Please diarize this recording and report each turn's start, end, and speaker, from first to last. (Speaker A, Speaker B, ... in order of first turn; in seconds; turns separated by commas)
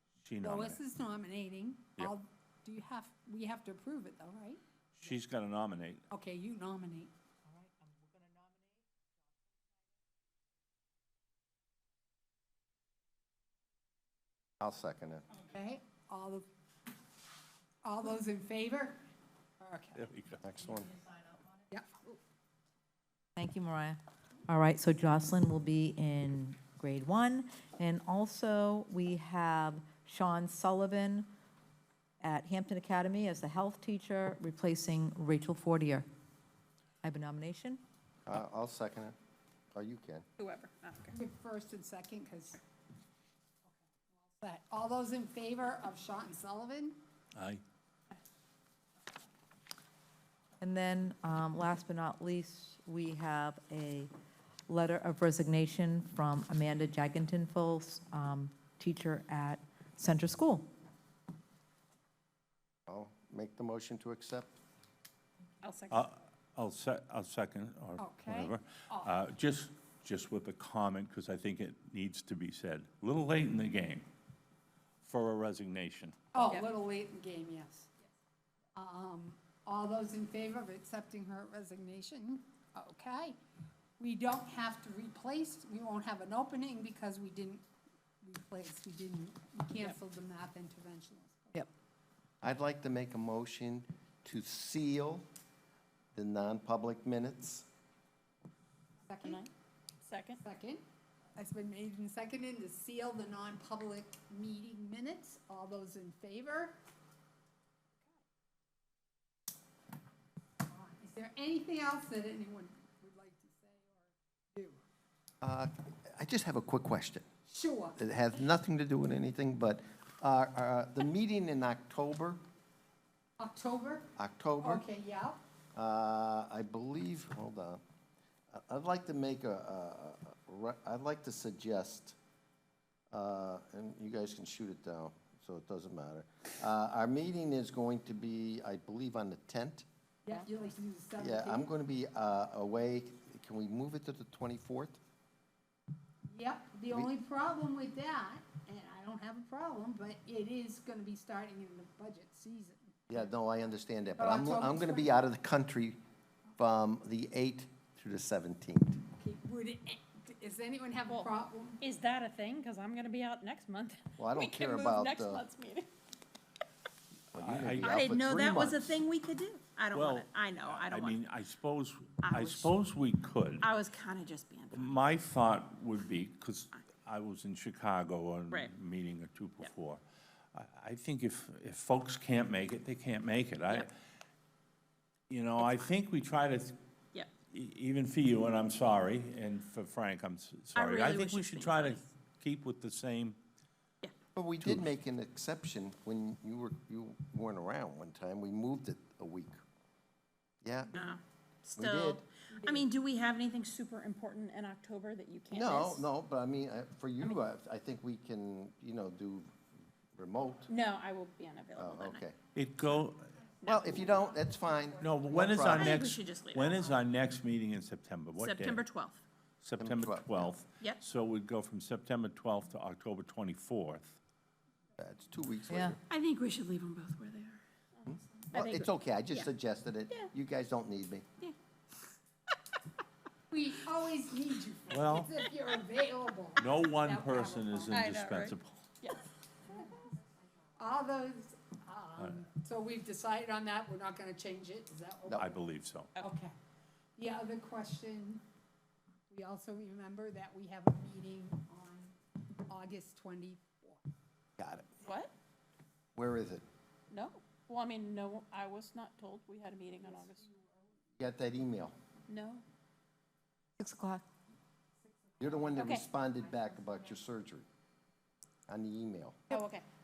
Speaker A: 0.2-0.8, Speaker B: 0.4-4.6, Speaker A: 4.9-6.0, Speaker B: 6.1-7.1, Speaker C: 7.5-8.8, Speaker D: 14.6-15.3, Speaker B: 15.4-16.4, Speaker B: 17.8-19.0, Speaker B: 19.6-20.1, Speaker A: 19.9-20.4, Speaker D: 20.4-20.9, Speaker B: 21.7-22.1, Speaker C: 23.4-31.3, Speaker C: 32.2-36.1, Speaker C: 37.0-37.8, Speaker D: 38.2-39.1, Speaker D: 39.7-40.2, Speaker E: 40.4-41.1, Speaker B: 41.1-42.6, Speaker B: 43.7-47.0, Speaker A: 47.3-47.6, Speaker C: 50.6-54.1, Speaker C: 54.7-60.7, Speaker D: 62.9-64.5, Speaker E: 65.6-66.0, Speaker A: 65.9-74.1, Speaker B: 68.0-69.1, Speaker A: 75.0-76.2, Speaker B: 76.3-77.9, Speaker E: 76.4-76.7, Speaker B: 78.7-83.4, Speaker B: 84.0-87.6, Speaker B: 88.2-91.7, Speaker D: 92.4-95.3, Speaker D: 96.1-97.7, Speaker B: 99.1-99.5, Speaker E: 100.0-100.4, Speaker B: 100.4-100.8, Speaker B: 101.3-106.8, Speaker B: 110.7-114.8, Speaker D: 115.4-117.3, Speaker B: 117.5-118.0, Speaker D: 118.0-122.4, Speaker B: 123.4-124.0, Speaker D: 124.2-124.8, Speaker B: 124.6-125.4, Speaker D: 125.7-127.8, Speaker D: 128.5-132.2, Speaker D: 133.1-139.9, Speaker B: 140.2-141.7, Speaker D: 141.2-145.0, Speaker B: 146.3-153.0, Speaker D: 153.1-156.0, Speaker B: 154.2-155.2, Speaker D: 156.6-159.0, Speaker B: 159.2-161.8, Speaker E: 161.8-165.9, Speaker D: 164.2-165.4, Speaker A: 167.3-168.5, Speaker D: 167.3-169.0, Speaker E: 167.8-171.2, Speaker A: 169.9-173.7, Speaker E: 172.2-172.7, Speaker E: 173.6-174.9, Speaker A: 174.7-180.0, Speaker A: 180.5-183.9, Speaker A: 185.3-186.8, Speaker E: 185.6-185.8, Speaker A: 187.5-193.4, Speaker E: 190.7-192.1, Speaker D: 194.3-199.6, Speaker D: 200.6-201.1, Speaker E: 200.9-206.1, Speaker D: 201.8-202.2, Speaker B: 202.6-202.8, Speaker D: 205.5-209.6, Speaker D: 210.1-210.7, Speaker E: 210.7-212.2, Speaker D: 211.7-212.4, Speaker A: 212.5-213.3, Speaker E: 213.6-214.2, Speaker D: 213.6-216.0, Speaker A: 215.0-218.8, Speaker E: 215.7-216.9, Speaker E: 218.4-219.2, Speaker A: 219.6-224.2, Speaker D: 219.8-220.5, Speaker D: 225.0-226.0, Speaker C: 225.7-225.9, Speaker E: 226.1-227.6, Speaker D: 228.1-231.2, Speaker E: 228.5-229.5, Speaker B: 233.5-238.0, Speaker A: 234.9-235.3, Speaker A: 236.6-238.8, Speaker E: 237.9-240.0, Speaker B: 240.8-245.6, Speaker A: 242.2-242.4, Speaker A: 245.3-246.2, Speaker B: 246.2-246.5, Speaker B: 247.2-248.4, Speaker B: 249.3-252.1, Speaker B: 252.7-254.0, Speaker D: 254.6-254.9, Speaker E: 255.0-255.3, Speaker D: 256.1-256.6, Speaker E: 257.1-260.5, Speaker B: 260.1-260.9, Speaker D: 261.2-261.9, Speaker E: 262.3-262.6, Speaker C: 263.8-264.2, Speaker B: 265.1-265.8, Speaker D: 265.4-267.6, Speaker E: 265.8-266.1, Speaker D: 268.7-269.4, Speaker E: 269.5-269.8